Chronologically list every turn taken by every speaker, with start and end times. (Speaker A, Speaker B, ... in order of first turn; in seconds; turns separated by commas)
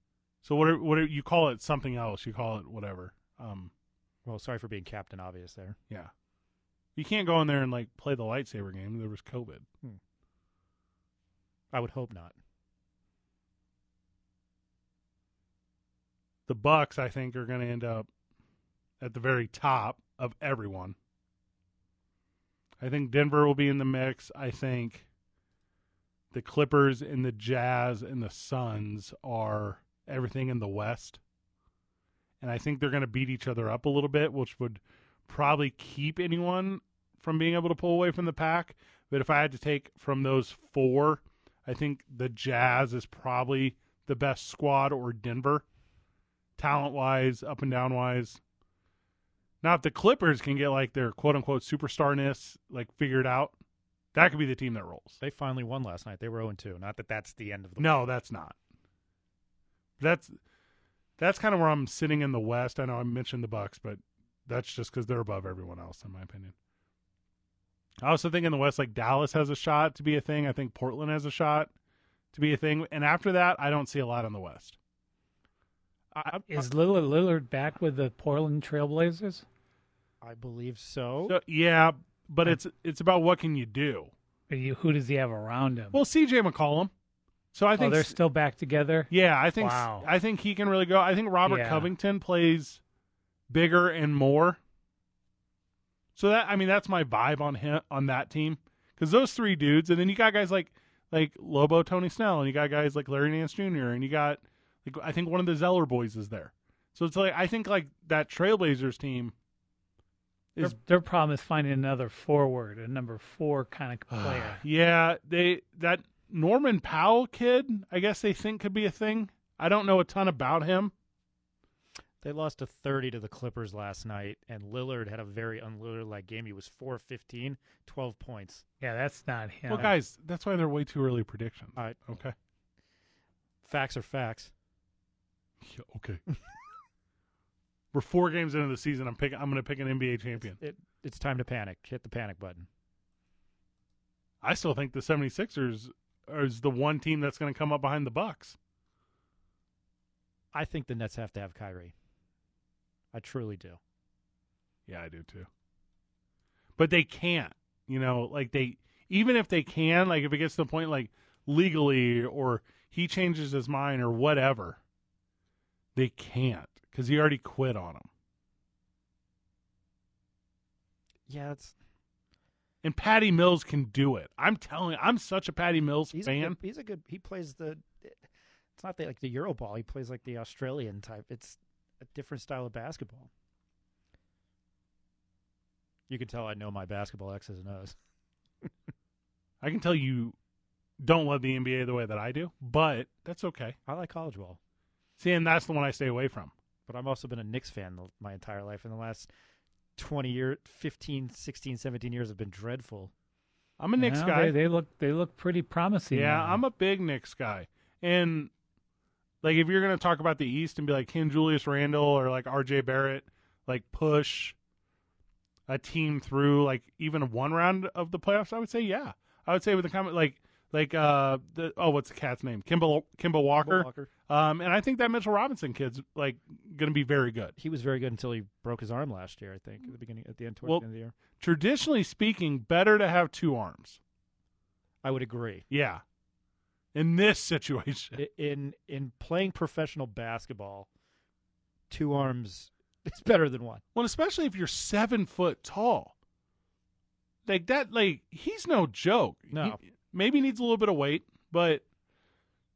Speaker A: 0.4-3.7, Speaker B: 4.2-5.8, Speaker A: 7.0-9.7, Speaker B: 11.7-12.3, Speaker A: 16.5-18.1, Speaker A: 19.0-20.9, Speaker A: 22.8-25.1, Speaker A: 26.3-31.2, Speaker A: 32.4-45.6, Speaker A: 46.6-48.4, Speaker A: 49.6-53.5, Speaker A: 54.1-55.2, Speaker B: 55.2-58.1, Speaker A: 57.8-58.6, Speaker A: 60.0-60.4, Speaker A: 61.2-66.5, Speaker A: 68.0-71.7, Speaker A: 72.3-74.8, Speaker B: 76.1-76.6, Speaker C: 76.5-79.4, Speaker B: 80.2-81.4, Speaker A: 81.2-84.1, Speaker C: 84.5-86.0, Speaker A: 85.9-86.9, Speaker A: 87.5-88.2, Speaker C: 87.8-90.1, Speaker A: 89.1-92.8, Speaker C: 91.4-91.9, Speaker A: 93.5-94.6, Speaker A: 96.1-109.3, Speaker C: 110.6-114.6, Speaker A: 114.1-120.9, Speaker B: 122.2-128.6, Speaker C: 128.8-129.9, Speaker A: 129.7-132.3, Speaker B: 131.8-132.2, Speaker B: 133.6-134.5, Speaker A: 135.6-136.2, Speaker A: 137.9-140.6, Speaker B: 140.3-142.7, Speaker A: 144.4-148.6, Speaker B: 150.5-151.9, Speaker B: 153.1-153.8, Speaker A: 154.9-155.5, Speaker A: 156.8-164.8, Speaker A: 165.9-168.1, Speaker B: 171.3-171.7, Speaker A: 172.8-176.6, Speaker B: 176.1-183.3, Speaker B: 186.1-187.9, Speaker A: 189.6-190.3, Speaker A: 191.0-193.8, Speaker B: 193.9-194.6, Speaker A: 195.2-196.5, Speaker B: 196.9-199.3, Speaker B: 200.0-203.1, Speaker A: 203.8-204.5, Speaker C: 204.0-206.6, Speaker A: 206.1-208.5, Speaker A: 209.4-214.6, Speaker A: 215.7-227.5, Speaker B: 223.6-224.1, Speaker B: 227.6-231.1, Speaker A: 231.4-234.0, Speaker B: 235.0-235.7, Speaker A: 235.7-236.0, Speaker A: 236.9-238.2, Speaker B: 238.2-240.9, Speaker B: 241.9-243.8, Speaker A: 243.9-246.1, Speaker A: 247.4-251.8, Speaker B: 249.5-249.8